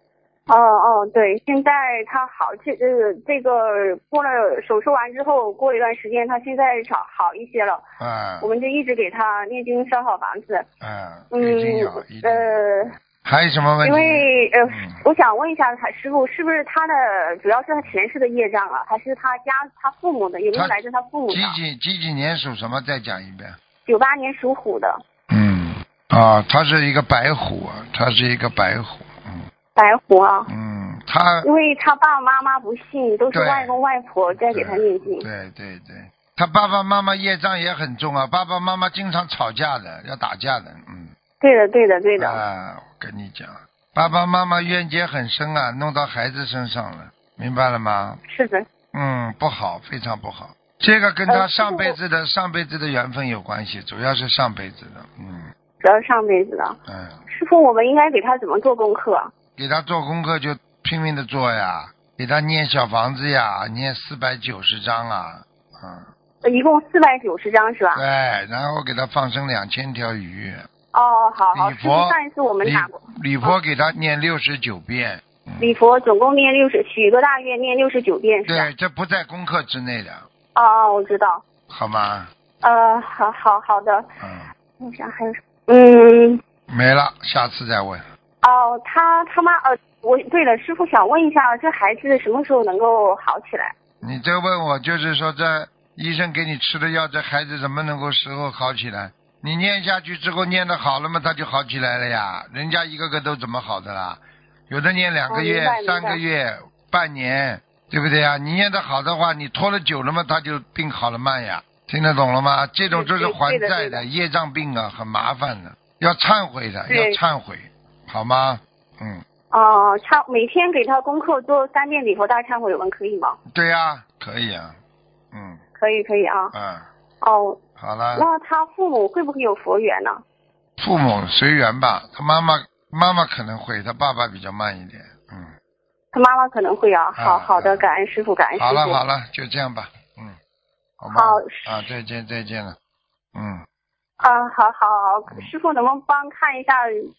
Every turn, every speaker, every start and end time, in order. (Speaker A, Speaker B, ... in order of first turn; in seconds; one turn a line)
Speaker A: 0.5-7.8
Speaker B: 8.0-8.5
Speaker A: 8.4-10.7
Speaker B: 10.8-15.0
Speaker A: 11.3-12.9
Speaker A: 13.8-21.6
Speaker B: 21.3-23.6
Speaker A: 23.9-25.0
Speaker B: 25.3-29.4
Speaker A: 29.8-30.5
Speaker B: 30.5-31.5
Speaker A: 31.4-35.2
Speaker B: 33.3-33.7
Speaker B: 34.5-41.1
Speaker A: 41.4-42.4
Speaker B: 42.2-48.2
Speaker A: 48.3-48.6
Speaker B: 48.9-55.5
Speaker A: 51.3-52.0
Speaker A: 55.8-56.8
Speaker B: 56.9-57.2
Speaker A: 57.3-59.3
Speaker B: 59.6-66.1
Speaker A: 66.4-68.0
Speaker B: 67.9-70.6
Speaker A: 70.9-73.5
Speaker B: 71.5-75.7
Speaker A: 75.6-78.7
Speaker B: 78.5-80.2
Speaker A: 80.5-81.4
Speaker B: 81.7-82.3
Speaker A: 82.6-84.0
Speaker B: 84.2-84.5
Speaker A: 84.8-86.4
Speaker B: 86.7-88.1
Speaker A: 88.4-93.7
Speaker B: 94.0-119.2
Speaker A: 105.3-106.2
Speaker A: 112.9-114.0
Speaker A: 116.9-117.2
Speaker A: 119.5-123.4
Speaker B: 123.5-124.8
Speaker B: 125.3-125.6
Speaker A: 125.8-126.5
Speaker B: 126.5-126.9
Speaker A: 127.2-127.6
Speaker B: 127.8-128.3
Speaker A: 128.1-130.2
Speaker B: 130.8-135.5
Speaker A: 136.1-139.0
Speaker B: 137.1-137.8
Speaker B: 138.6-140.4
Speaker B: 141.0-142.8
Speaker A: 141.1-141.6
Speaker B: 143.3-143.6
Speaker A: 144.2-146.9